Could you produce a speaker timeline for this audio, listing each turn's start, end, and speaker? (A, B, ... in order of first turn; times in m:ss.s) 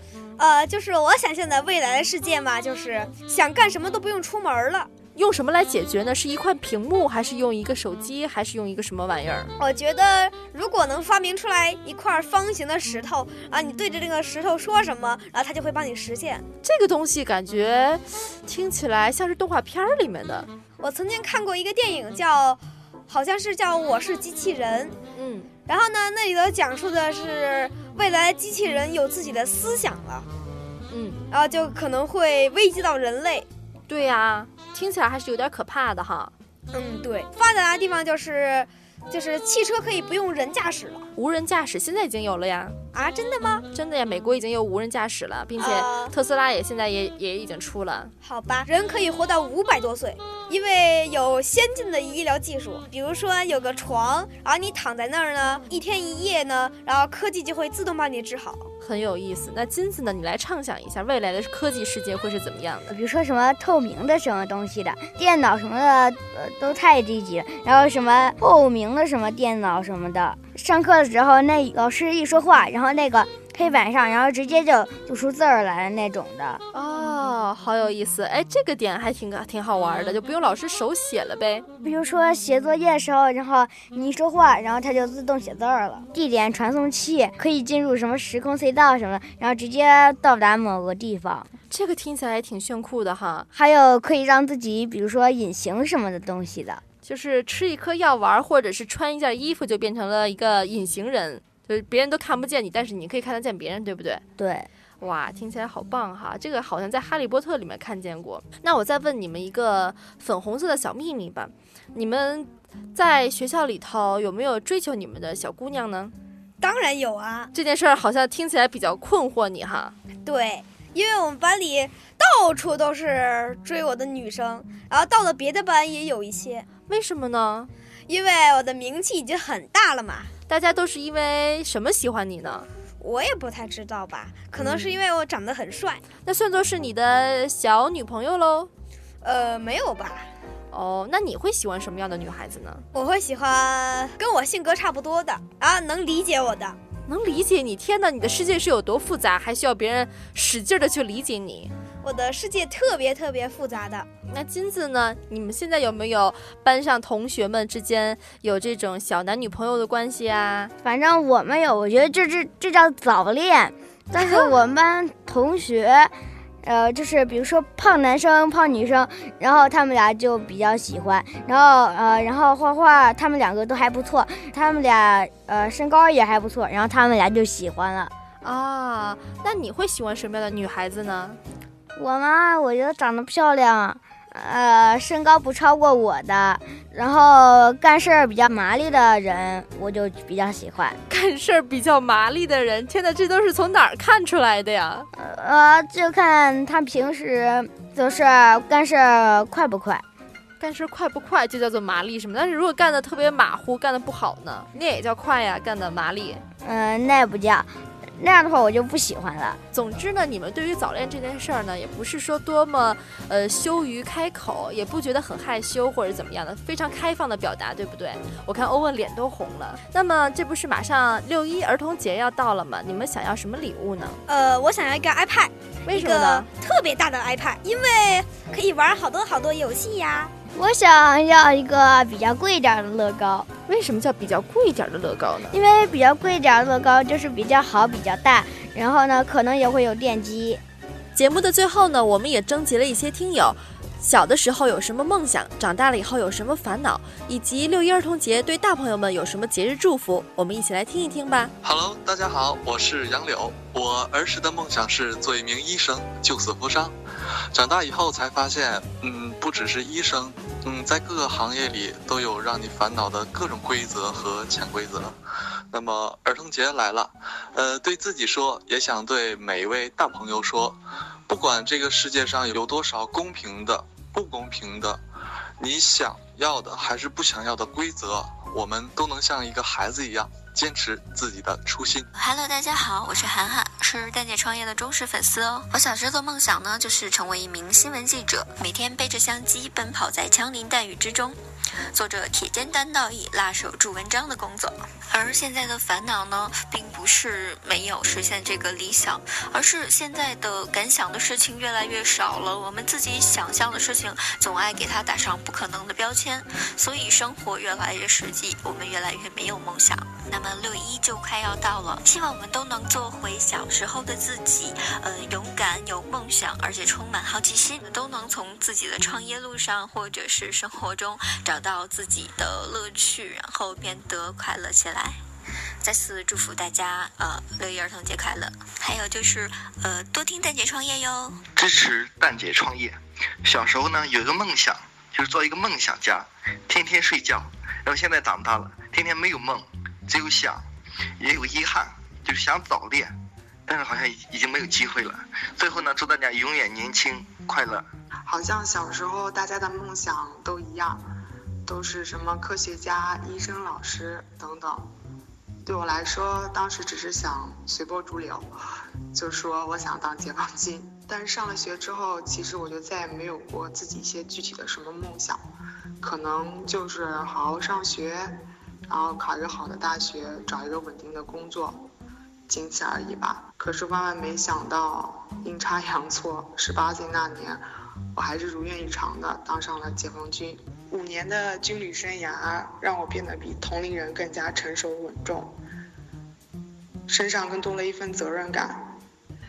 0:00.4-0:04.9 A
0:05.2-0:09.5 B
0:09.6-0:16.4 A
0:16.6-0:20.5 B
0:20.8-0:25.0 A
0:25.1-0:25.5 B
0:25.7-0:30.3 A
0:30.9-0:31.2 B
0:31.3-0:33.5 A
0:33.9-0:36.3 B
0:36.7-0:41.1 A
0:41.2-0:42.8 B
0:42.9-0:43.7 A
0:43.7-0:48.1 B
0:45.6-0:46.1 A
0:48.2-0:58.7 A
0:58.8-1:02.9 B
1:02.9-1:16.6 C
1:16.7-1:21.7 B
1:21.8-1:31.5 C
1:31.7-1:33.5 B
1:33.5-1:36.8 C
1:37.0-1:44.2 B
1:44.4-1:44.7 C
1:45.0-1:56.1 B
1:56.6-1:57.5 A
1:57.5-1:59.9 B
2:00.2-2:06.7 A
2:06.9-2:07.7 B
2:08.1-2:10.3 A
2:10.5-2:12.7 B
2:13.0-2:16.0 A
2:14.6-2:14.9 B
2:16.2-2:18.7 B
2:19.2-2:20.3 A
2:20.7-2:22.8 B
2:22.9-2:26.8 A
2:27.1-2:31.7 B
2:32.0-2:34.1 A
2:34.3-2:40.7 B
2:40.8-2:58.1 C
2:44.1-2:44.5 B
2:58.4-3:01.4 B
3:02.0-3:11.0 C
3:11.1-3:15.1 B
3:15.1-3:20.0 C
3:20.6-3:26.4 B
3:26.6-3:29.6 C
3:29.7-3:44.2 B
3:44.3-3:50.3 A
3:45.9-3:46.5 B
3:50.5-3:53.5 C
3:53.7-3:55.6 B
3:55.5-4:00.6 C
4:01.1-4:11.5 B
4:11.6-4:16.9 D
4:17.5-4:25.2 D
4:25.7-4:35.0 D
4:35.6-4:42.1 D
4:42.1-4:51.4 E
4:51.9-5:25.2 E
5:25.8-5:31.4 E
5:31.6-5:40.6 F
5:41.2-5:43.1 F
5:43.7-5:47.8 F
5:48.3-5:51.0 G
5:51.6-5:54.9 G
5:55.6-5:58.5 G
5:59.1-6:05.4 G
6:06.0-6:11.8 G
6:12.5-6:17.6 G
6:18.1-6:25.5 G
6:27.1-6:28.9 G